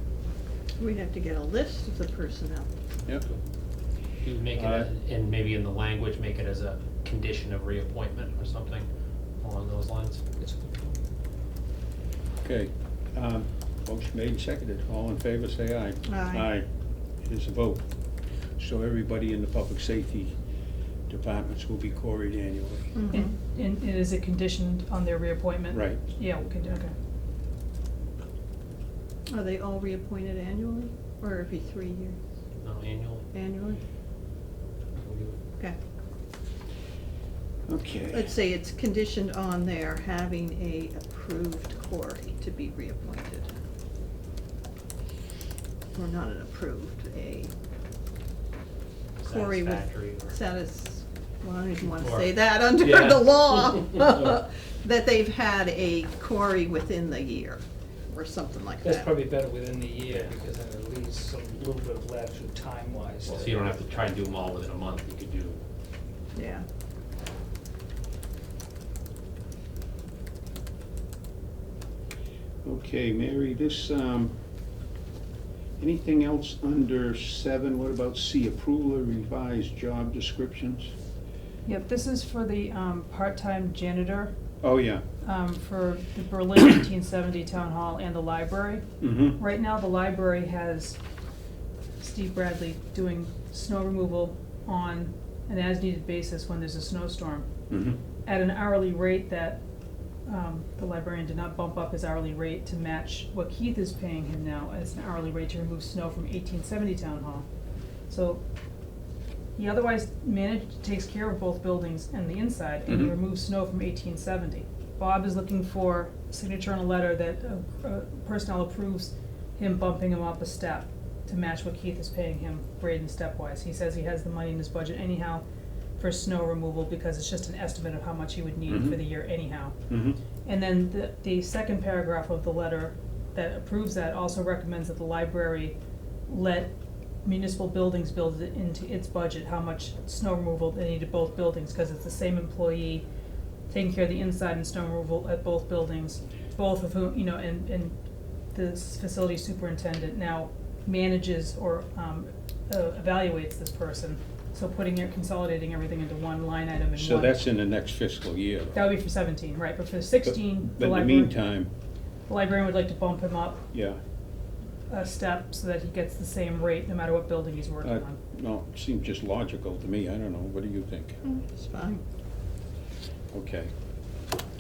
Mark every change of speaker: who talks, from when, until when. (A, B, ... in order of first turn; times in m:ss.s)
0:00.8-0:02.7 A
0:04.2-0:08.9 B
0:04.5-0:04.9 C
0:09.4-0:10.2 B
0:10.4-0:11.0 D
0:12.4-0:16.6 C
0:16.1-0:16.5 A
0:17.2-0:17.8 C
0:18.6-0:20.3 C
0:21.1-0:23.0 C
0:23.0-0:23.3 A
0:23.1-0:27.0 E
0:25.7-0:26.0 C
0:29.3-0:32.2 A
0:32.6-0:33.3 B
0:33.3-0:33.8 A
0:35.0-0:35.4 B
0:37.7-0:38.3 C
0:38.1-0:43.5 A
0:45.9-0:47.5 A
0:49.2-0:50.4 B
0:49.3-0:59.2 A
0:51.8-0:53.9 B
0:58.8-1:03.8 D
1:00.1-1:00.4 B
1:03.2-1:05.6 B
1:06.4-1:06.6 A
1:12.6-1:14.4 C
1:15.8-1:20.9 C
1:21.6-1:24.4 E
1:24.6-1:25.0 C
1:25.2-1:31.0 E
1:29.0-1:29.4 C
1:32.0-1:37.5 E
1:37.7-1:38.0 C
1:38.2-1:39.6 E
1:40.3-1:47.4 E
1:48.1-1:48.4 E
1:49.6-2:05.4 E
1:52.9-1:53.2 C
2:06.0-2:09.8 E
2:08.7-2:09.0 C
2:09.9-2:10.2 C
2:10.4-2:15.8 E
2:16.3-2:16.7 E
2:17.2-2:23.0 E
2:23.7-2:28.0 E
2:28.5-2:37.4 E
2:37.0-2:38.9 C
2:38.7-2:41.4 E
2:40.2-2:41.7 C
2:42.3-2:43.6 E
2:43.7-2:44.0 C
2:44.9-2:48.2 E
2:47.8-2:51.2 C
2:51.2-2:52.0 A
2:53.3-2:53.7 C